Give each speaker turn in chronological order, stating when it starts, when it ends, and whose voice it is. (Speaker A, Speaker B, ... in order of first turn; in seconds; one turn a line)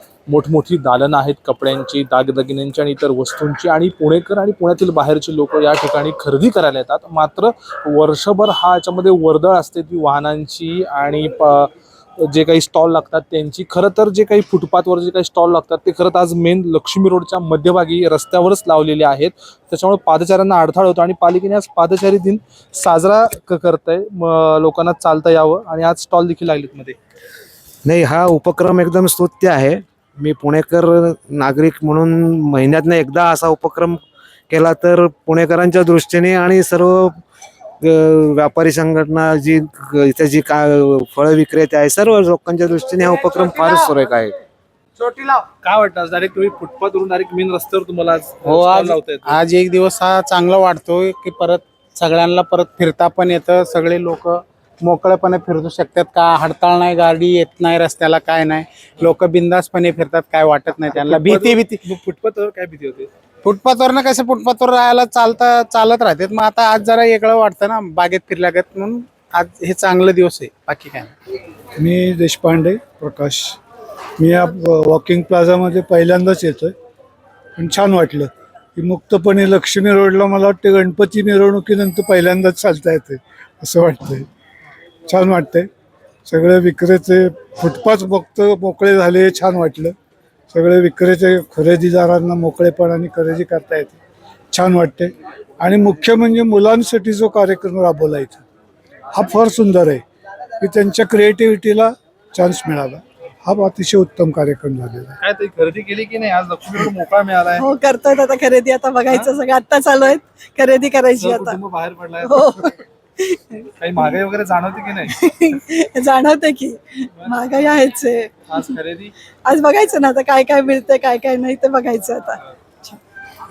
Speaker A: 0.3-26.9
Speaker B: 27.9-37.2
Speaker B: 37.8-44.3
Speaker A: 45.4-49.4
Speaker C: 48.5-61.8
Speaker A: 60.9-63.1
Speaker C: 63.4-71.1
Speaker D: 71.8-73.6
Speaker D: 74.2-76.7
Speaker D: 77.6-84.3
Speaker D: 85.1-85.7
Speaker D: 86.3-89.9
Speaker D: 90.5-94.0
Speaker D: 94.5-98.4
Speaker D: 99.1-100.0
Speaker D: 100.6-105.2
Speaker A: 105.2-107.7
Speaker E: 107.6-111.6
Speaker A: 111.2-112.7
Speaker E: 112.3-113.7
Speaker A: 113.8-115.2
Speaker E: 115.2-118.3
Speaker A: 118.5-119.1
Speaker E: 119.5-123.0